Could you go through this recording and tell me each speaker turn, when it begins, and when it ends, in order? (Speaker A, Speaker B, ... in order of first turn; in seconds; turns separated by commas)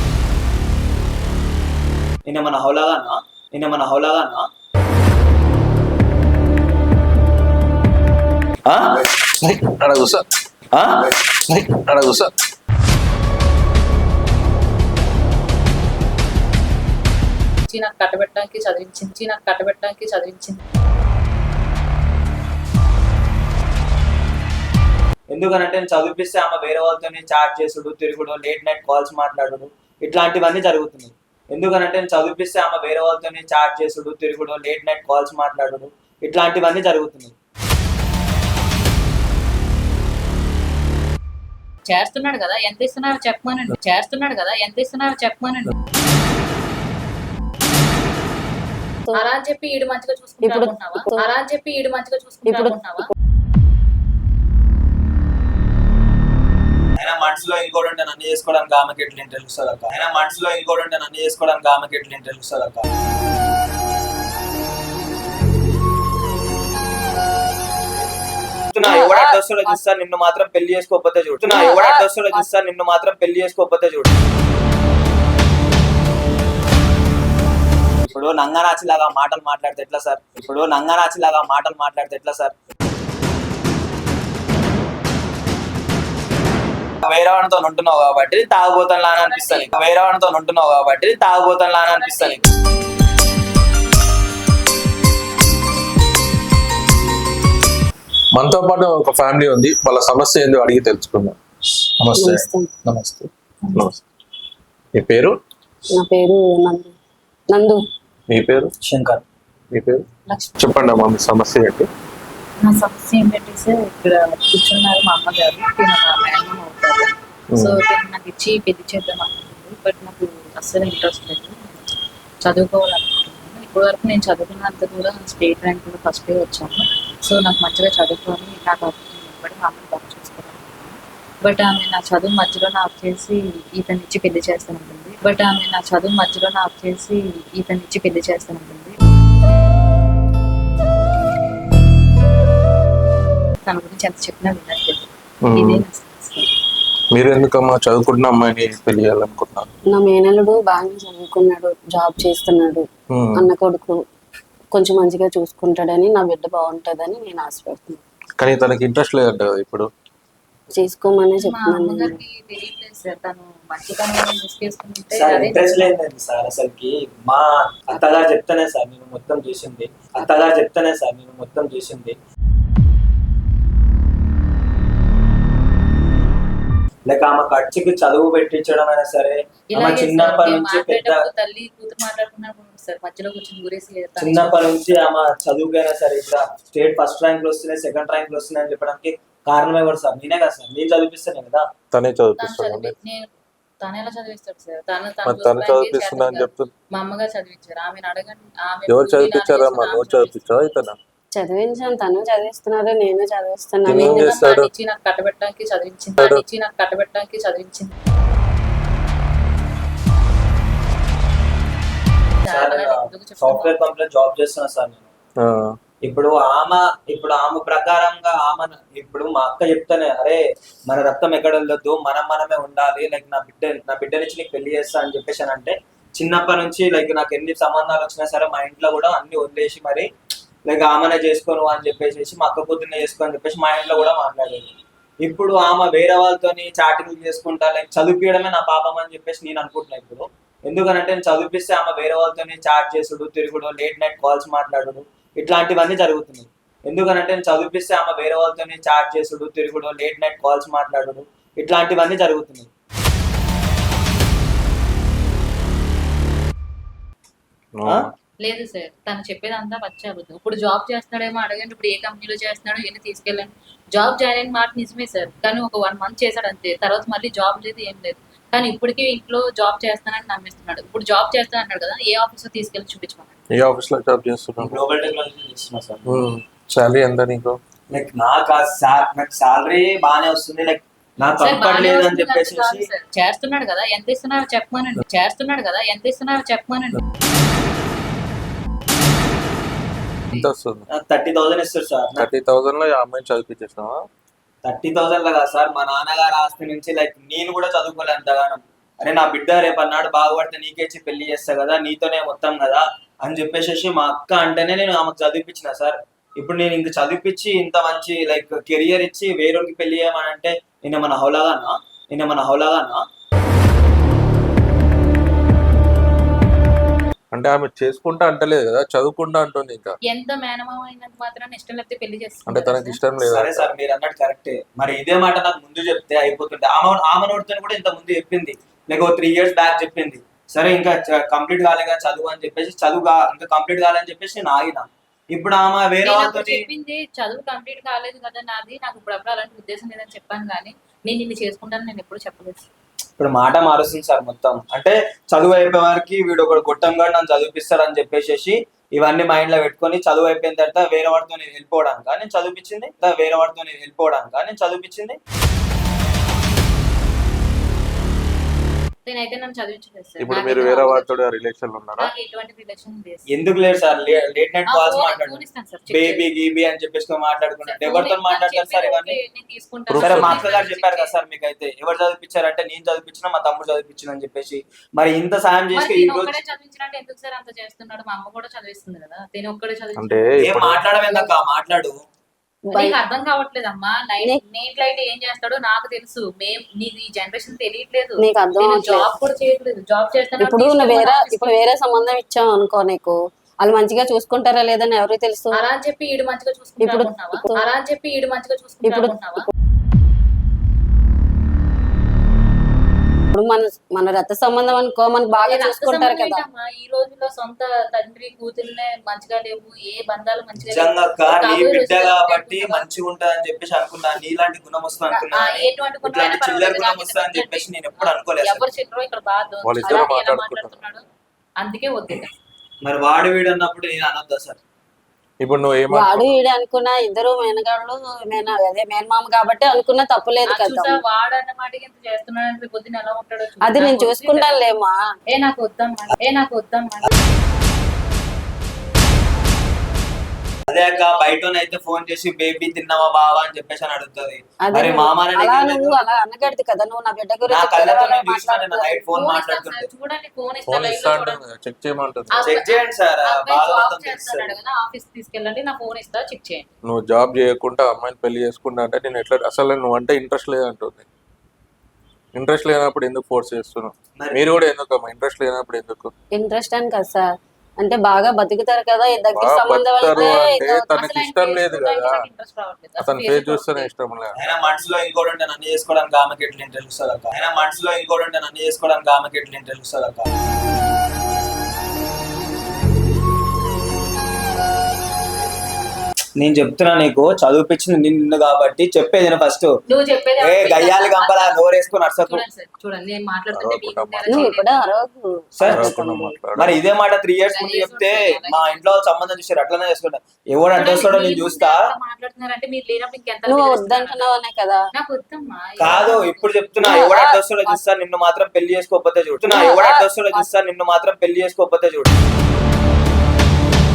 Speaker A: 2.3-4.5, Speaker A: 8.7-8.9, Speaker B: 9.4-10.2, Speaker A: 10.7-11.0, Speaker B: 11.5-12.3, Speaker C: 17.7-20.6, Speaker A: 25.3-37.4, Speaker C: 41.9-45.8, Speaker C: 49.1-53.1, Speaker D: 50.4-51.2, Speaker D: 52.5-53.1, Speaker A: 57.0-62.9, Speaker A: 68.7-74.2, Speaker D: 68.8-69.8, Speaker D: 71.5-72.5, Speaker A: 78.0-82.5, Speaker A: 87.0-92.4, Speaker C: 89.2-89.8, Speaker C: 91.9-92.5, Speaker B: 98.3-101.4, Speaker B: 102.0-104.0, Speaker D: 102.2-102.7, Speaker B: 105.0-105.3, Speaker D: 106.0-106.9, Speaker D: 107.5-107.8, Speaker B: 108.3-108.7, Speaker A: 108.8-109.2, Speaker B: 109.7-110.0, Speaker C: 110.3-110.6, Speaker B: 110.6-111.9, Speaker C: 112.6-121.9, Speaker C: 122.4-139.0, Speaker C: 143.7-146.5, Speaker B: 145.5-145.8, Speaker B: 147.1-149.7, Speaker D: 149.9-154.0, Speaker B: 153.1-153.4, Speaker D: 154.7-158.0, Speaker B: 158.4-159.9, Speaker D: 160.8-162.2, Speaker C: 161.4-165.9, Speaker A: 165.1-172.2, Speaker A: 177.1-181.2, Speaker C: 179.7-185.1, Speaker A: 184.2-191.7, Speaker B: 191.9-192.9, Speaker C: 192.4-193.3, Speaker C: 193.8-200.4, Speaker B: 195.2-196.7, Speaker B: 198.9-201.0, Speaker D: 201.4-204.3, Speaker B: 203.9-204.7, Speaker C: 203.9-207.9, Speaker C: 212.4-213.9, Speaker A: 212.5-215.1, Speaker B: 215.4-215.8, Speaker A: 216.1-230.1, Speaker A: 230.7-252.7, Speaker B: 257.8-258.0, Speaker C: 258.4-273.3, Speaker B: 273.5-274.8, Speaker A: 274.6-276.1, Speaker B: 276.1-277.6, Speaker A: 277.9-282.9, Speaker C: 281.4-287.0, Speaker B: 290.3-290.9, Speaker A: 290.9-292.3, Speaker B: 292.2-294.0, Speaker A: 294.6-313.0, Speaker B: 317.3-320.0, Speaker C: 320.1-323.0, Speaker B: 322.5-323.7, Speaker A: 323.2-336.6, Speaker C: 336.0-342.7, Speaker A: 343.2-355.2, Speaker C: 359.1-361.2, Speaker B: 360.2-362.1, Speaker C: 362.0-363.3, Speaker A: 363.3-369.2, Speaker C: 364.7-366.3, Speaker C: 367.6-371.1, Speaker B: 369.9-370.6, Speaker A: 370.0-376.4, Speaker C: 375.7-380.3, Speaker B: 380.0-380.8, Speaker A: 380.4-381.9, Speaker D: 382.7-383.0, Speaker C: 382.7-391.7, Speaker D: 388.2-389.1, Speaker D: 390.4-395.6, Speaker C: 395.5-399.5, Speaker D: 396.8-397.6, Speaker D: 398.8-399.1, Speaker D: 403.3-406.4, Speaker C: 405.4-412.9, Speaker A: 410.6-418.6, Speaker C: 415.1-421.1, Speaker B: 419.6-420.8, Speaker C: 421.6-422.3, Speaker A: 422.8-424.6, Speaker B: 425.4-426.4, Speaker D: 425.9-431.0, Speaker C: 430.5-434.7, Speaker D: 433.6-435.0, Speaker C: 435.3-437.1, Speaker A: 440.7-446.2, Speaker D: 444.6-449.0, Speaker A: 447.5-449.9, Speaker C: 449.1-451.4, Speaker B: 450.7-452.5, Speaker C: 452.3-456.7, Speaker A: 452.4-454.6, Speaker B: 456.9-461.1, Speaker B: 462.4-466.1, Speaker D: 466.4-467.3, Speaker D: 467.8-470.9, Speaker B: 469.4-472.1, Speaker C: 470.1-473.9, Speaker B: 473.0-474.3, Speaker A: 474.3-480.3, Speaker A: 486.4-489.7, Speaker C: 489.9-491.6, Speaker A: 490.4-492.4, Speaker C: 492.3-494.9, Speaker B: 493.5-494.6, Speaker D: 494.3-496.4, Speaker A: 495.6-495.9, Speaker B: 495.7-496.8, Speaker A: 496.6-501.9, Speaker C: 497.5-498.8, Speaker C: 500.8-504.4, Speaker D: 503.5-504.8, Speaker C: 504.9-507.0, Speaker A: 505.8-512.2, Speaker D: 506.8-507.8, Speaker D: 509.5-510.5